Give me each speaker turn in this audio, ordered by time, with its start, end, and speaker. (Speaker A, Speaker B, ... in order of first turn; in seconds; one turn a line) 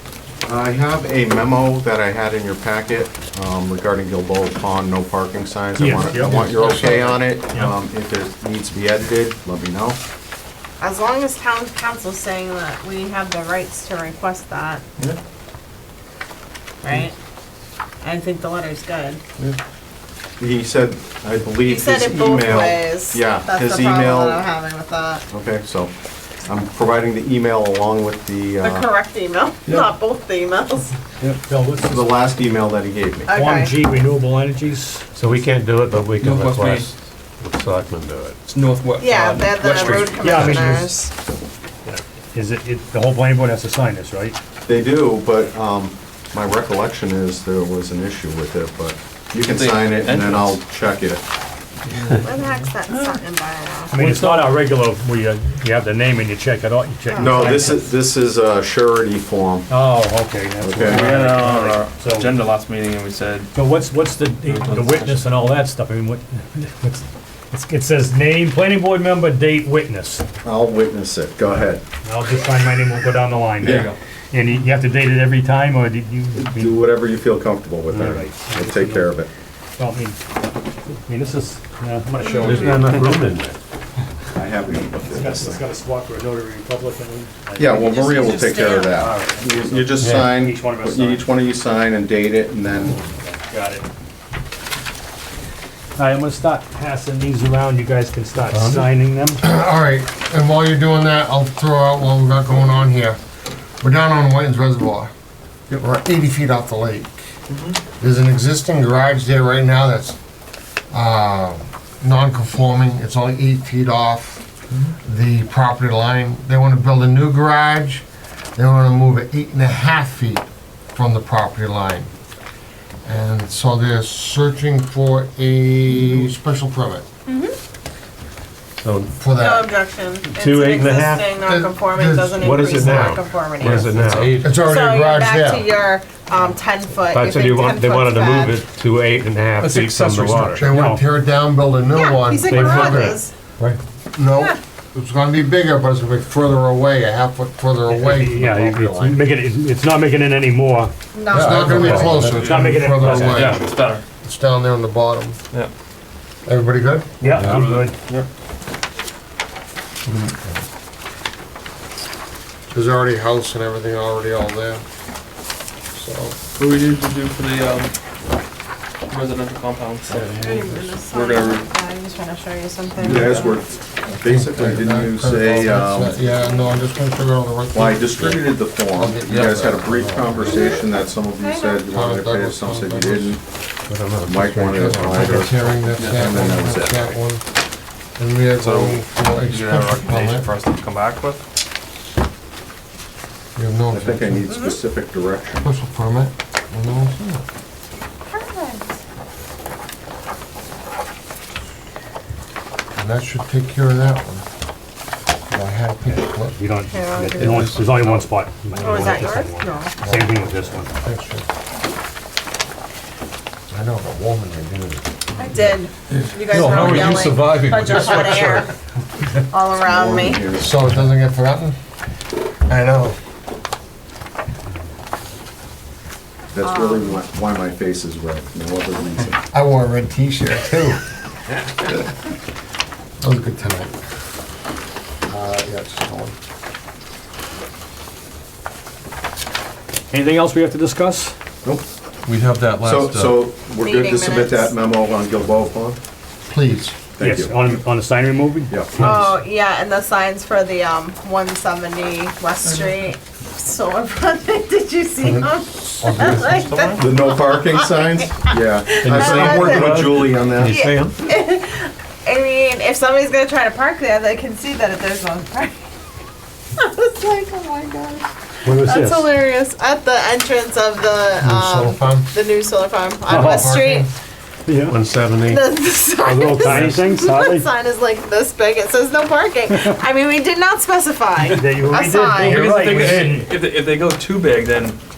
Speaker A: 0.5-10.0
Speaker B: 5.8-7.7
Speaker C: 6.1-6.8
Speaker D: 10.8-14.8
Speaker D: 16.8-17.1
Speaker D: 18.0-19.2
Speaker A: 20.4-24.5
Speaker D: 21.6-25.2
Speaker A: 25.3-25.9
Speaker A: 26.5-28.9
Speaker D: 28.6-31.0
Speaker B: 31.4-32.1
Speaker A: 31.9-33.4
Speaker D: 33.3-33.7
Speaker B: 33.3-35.1
Speaker E: 35.2-38.4
Speaker F: 36.2-36.9
Speaker F: 38.5-40.7
Speaker D: 39.0-41.1
Speaker B: 40.2-40.9
Speaker B: 41.9-44.4
Speaker A: 44.7-51.2
Speaker F: 49.4-50.6
Speaker F: 51.9-52.7
Speaker D: 52.2-54.0
Speaker B: 53.9-57.9
Speaker F: 54.0-54.4
Speaker D: 57.1-57.7
Speaker A: 57.2-59.7
Speaker B: 59.7-62.3
Speaker A: 60.6-61.1
Speaker F: 60.9-63.5
Speaker B: 63.5-70.2
Speaker F: 64.5-65.3
Speaker A: 70.4-71.8
Speaker B: 72.0-76.8
Speaker F: 73.6-74.0
Speaker A: 73.6-73.9
Speaker A: 76.4-79.3
Speaker B: 77.9-79.1
Speaker B: 79.8-80.2
Speaker B: 81.0-83.2
Speaker D: 82.2-82.9
Speaker E: 82.5-83.5
Speaker A: 84.3-85.6
Speaker B: 85.1-87.9
Speaker A: 87.6-93.0
Speaker D: 87.8-89.0
Speaker B: 88.8-91.3
Speaker E: 90.0-90.3
Speaker B: 92.9-93.9
Speaker B: 96.0-99.4
Speaker C: 99.4-103.2
Speaker C: 103.8-105.1
Speaker C: 105.7-107.2
Speaker C: 108.0-110.2
Speaker C: 110.9-114.4
Speaker C: 115.0-122.1
Speaker C: 123.0-127.0
Speaker D: 127.3-127.6
Speaker E: 128.8-129.1
Speaker C: 129.2-129.7
Speaker D: 129.3-134.0
Speaker E: 130.3-131.3
Speaker C: 131.4-133.2
Speaker E: 132.4-134.4
Speaker G: 133.6-134.5
Speaker C: 134.4-135.7
Speaker D: 134.6-138.6
Speaker E: 137.1-140.6
Speaker G: 139.6-140.6
Speaker C: 140.5-143.2
Speaker B: 140.6-141.0
Speaker D: 141.9-143.3
Speaker B: 142.5-143.1
Speaker C: 144.1-149.2
Speaker B: 147.9-150.9
Speaker D: 151.1-152.1
Speaker C: 151.3-153.7
Speaker B: 151.5-153.7
Speaker E: 151.5-152.4
Speaker F: 152.2-154.0
Speaker C: 154.2-155.4
Speaker C: 156.5-157.5
Speaker B: 157.2-157.9
Speaker F: 157.5-158.3
Speaker C: 162.7-164.8
Speaker C: 165.9-166.4
Speaker F: 166.6-167.9
Speaker F: 169.1-170.3
Speaker D: 170.3-173.7
Speaker F: 171.1-171.7
Speaker A: 173.0-176.5
Speaker C: 173.1-173.4
Speaker C: 174.1-180.4
Speaker A: 177.7-183.4
Speaker G: 179.2-179.6
Speaker D: 180.5-180.8
Speaker D: 181.4-181.8
Speaker C: 181.8-183.4
Speaker E: 183.9-185.0
Speaker A: 184.3-187.2
Speaker G: 184.4-185.4
Speaker C: 184.6-187.4
Speaker F: 185.9-187.0
Speaker C: 188.2-190.5
Speaker F: 188.6-191.4
Speaker C: 193.6-194.5
Speaker A: 193.9-195.7
Speaker D: 194.5-194.8
Speaker C: 195.6-197.4
Speaker D: 198.3-198.9
Speaker C: 203.0-204.4
Speaker C: 205.5-206.6
Speaker B: 206.6-210.9
Speaker D: 206.9-207.6
Speaker G: 207.4-208.3
Speaker D: 208.8-209.9
Speaker C: 210.0-211.5
Speaker C: 213.7-215.1
Speaker D: 215.4-218.7
Speaker F: 216.1-216.9
Speaker G: 216.5-218.7
Speaker D: 219.5-220.5
Speaker A: 219.7-220.7
Speaker C: 220.5-221.8
Speaker C: 222.7-223.2
Speaker A: 226.5-229.4
Speaker D: 226.6-227.2
Speaker C: 229.5-231.0
Speaker C: 233.2-234.0
Speaker C: 235.3-236.4
Speaker B: 240.1-241.3
Speaker G: 242.3-243.5
Speaker A: 242.8-246.0
Speaker D: 243.8-244.8
Speaker C: 246.5-247.0
Speaker A: 247.2-247.8
Speaker B: 247.2-249.3
Speaker A: 248.7-249.2
Speaker D: 249.0-265.8
Speaker C: 255.2-256.8
Speaker F: 256.7-257.1
Speaker A: 257.0-260.9
Speaker G: 259.0-261.1
Speaker E: 259.6-260.0
Speaker E: 260.6-260.9
Speaker D: 266.8-274.1
Speaker B: 268.6-269.3
Speaker C: 271.4-272.3
Speaker C: 273.3-274.1
Speaker B: 273.3-273.7
Speaker B: 274.7-275.0
Speaker E: 274.9-275.6
Speaker G: 275.1-275.5
Speaker D: 275.4-282.6
Speaker B: 276.2-277.7
Speaker B: 281.5-283.5
Speaker F: 282.4-285.0